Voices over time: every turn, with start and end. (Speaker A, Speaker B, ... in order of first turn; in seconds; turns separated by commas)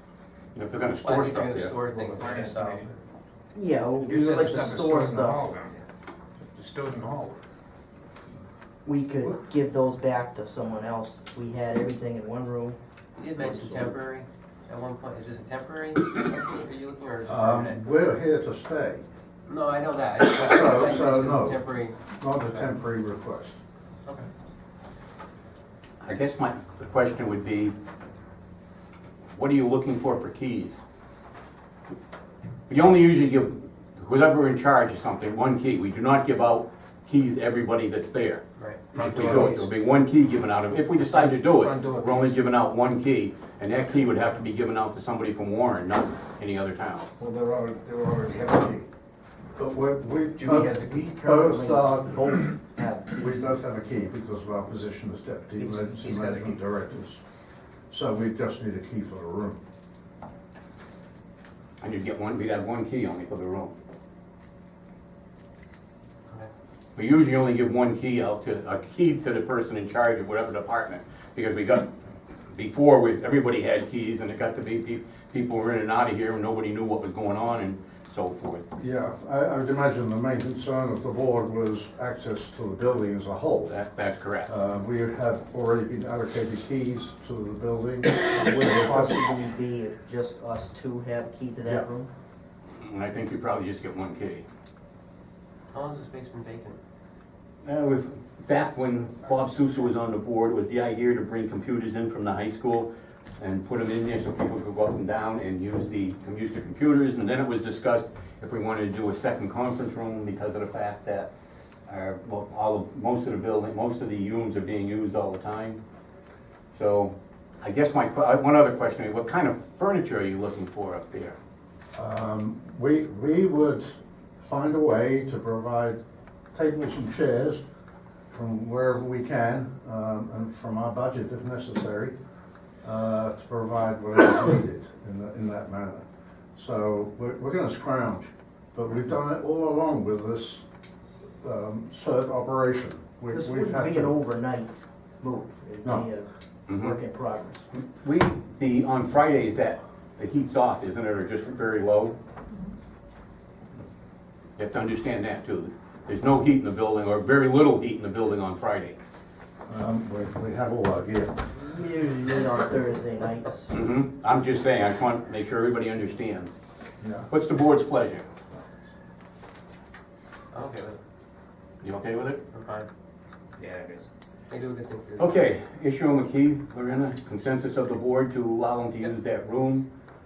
Speaker A: 0.5-1.8, Speaker B: 1.0-3.0, Speaker C: 1.9-2.9, Speaker D: 3.5-5.4, Speaker C: 4.0-5.8, Speaker C: 6.5-7.4, Speaker D: 8.8-12.8, Speaker B: 13.2-17.8, Speaker E: 17.3-19.1, Speaker B: 19.5-22.0, Speaker E: 20.4-23.6, Speaker A: 26.0-27.7, Speaker A: 29.3-30.8, Speaker A: 32.7-38.4, Speaker B: 38.6-39.5, Speaker A: 38.9-47.1, Speaker C: 39.1-39.7, Speaker C: 41.0-42.4, Speaker C: 47.2-48.9, Speaker E: 49.5-52.4, Speaker C: 50.3-51.5, Speaker D: 51.2-53.5, Speaker E: 53.1-57.2, Speaker B: 56.0-56.4, Speaker E: 57.9-59.6, Speaker A: 61.8-63.7, Speaker A: 67.0-71.9, Speaker A: 72.5-78.7, Speaker E: 78.8-83.8, Speaker A: 83.7-84.5, Speaker E: 84.5-89.3, Speaker D: 88.3-92.1, Speaker A: 92.8-94.5, Speaker B: 95.7-96.8, Speaker A: 97.6-111.3, Speaker A: 111.9-115.8, Speaker A: 116.7-121.4, Speaker E: 122.0-126.0, Speaker E: 126.5-127.6, Speaker E: 128.3-132.1, Speaker E: 132.8-136.1, Speaker E: 136.6-140.7, Speaker E: 141.4-144.2, Speaker D: 143.3-147.7, Speaker A: 146.7-147.0, Speaker A: 147.7-152.2, Speaker A: 154.6-159.0, Speaker E: 159.7-161.4, Speaker D: 161.6-163.7, Speaker A: 163.7-166.5, Speaker E: 167.0-167.3, Speaker A: 167.3-168.2, Speaker B: 170.5-171.0, Speaker A: 171.8-172.4, Speaker B: 172.5-172.9, Speaker C: 173.6-174.1, Speaker B: 174.5-175.5, Speaker A: 175.2-179.9